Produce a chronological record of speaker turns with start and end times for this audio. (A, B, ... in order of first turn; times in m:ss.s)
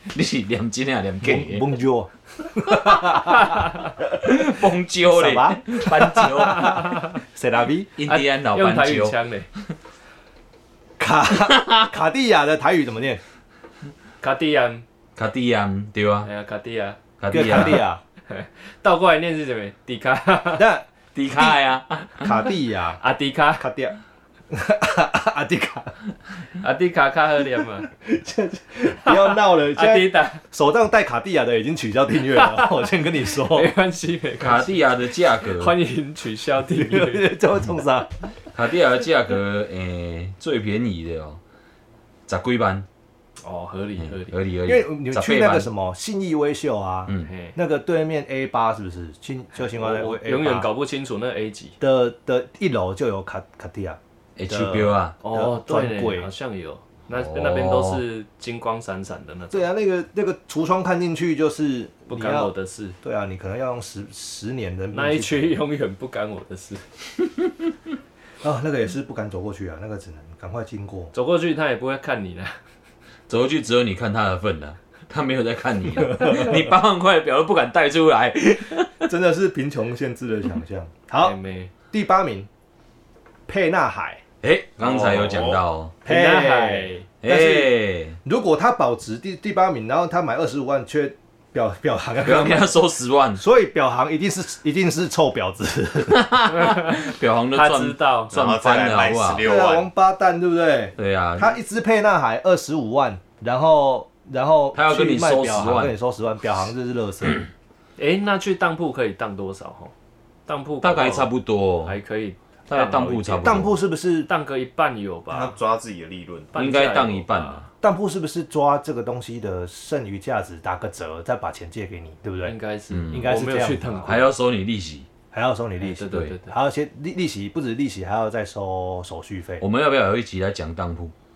0:00.1-0:01.7 A
0:01.2-0:03.8 B
0:04.1-0:07.0 A
0:05.1-0:07.9 B
0:08.0-0:09.2 A
0:08.0-0:09.5 C
0:11.0-0:13.2 B
0:11.5-0:11.9 A
0:14.2-0:14.8 C
0:15.2-0:16.3 A
0:16.2-0:17.0 C
0:17.2-0:17.8 A
0:17.3-0:18.0 B
0:18.3-0:20.7 C
0:20.6-0:21.6 B
0:21.1-0:22.4 A
0:22.2-0:23.0 B
0:23.0-0:23.7 C
0:23.6-0:24.0 B
0:24.5-0:25.9 B
0:26.6-0:27.9 C
0:27.9-0:33.7 B
0:29.0-0:30.4 C
0:33.5-0:34.8 C
0:34.4-0:35.7 A
0:35.5-0:37.3 C
0:36.7-0:38.1 B
0:38.5-0:41.4 A
0:42.3-0:42.8 A
0:43.4-0:44.3 C
0:44.0-0:45.7 A
0:44.6-0:50.7 B
0:47.2-0:47.5 C
0:49.7-0:51.8 C
0:51.8-0:56.3 B
0:54.4-0:55.1 A
0:55.2-0:59.7 C
0:57.1-0:58.0 A
0:59.5-1:02.5 B
1:02.1-1:03.0 C
1:03.0-1:05.6 B
1:04.9-1:06.8 C
1:08.4-1:11.1 B
1:11.1-1:12.6 C
1:13.3-1:19.0 A
1:19.0-1:21.4 B
1:21.2-1:21.7 C
1:21.9-1:22.5 B
1:23.5-1:24.2 B
1:24.4-1:25.9 A
1:24.8-1:25.4 C
1:25.1-1:25.6 D
1:26.0-1:27.1 C
1:26.0-1:32.7 B
1:27.2-1:28.2 A
1:32.2-1:33.4 A
1:33.4-1:36.3 B
1:36.0-1:39.5 A
1:36.5-1:38.3 C
1:38.3-1:39.9 D
1:39.4-1:47.5 B
1:41.0-1:41.6 A
1:44.7-1:45.9 A
1:48.0-1:49.9 C
1:50.5-1:51.3 C
1:50.8-1:52.0 A
1:51.8-1:53.7 C
1:52.7-1:53.7 A
1:53.4-1:54.3 B
1:54.2-1:55.5 C
1:55.3-1:56.6 D
1:56.5-1:57.6 C
1:56.5-1:57.6 A
1:57.8-2:02.5 B
2:02.4-2:04.3 C
2:02.9-2:03.3 A
2:03.1-2:04.1 B
2:04.0-2:05.1 A
2:05.3-2:09.6 B
2:05.8-2:06.5 C
2:06.1-2:06.4 A
2:09.6-2:11.1 A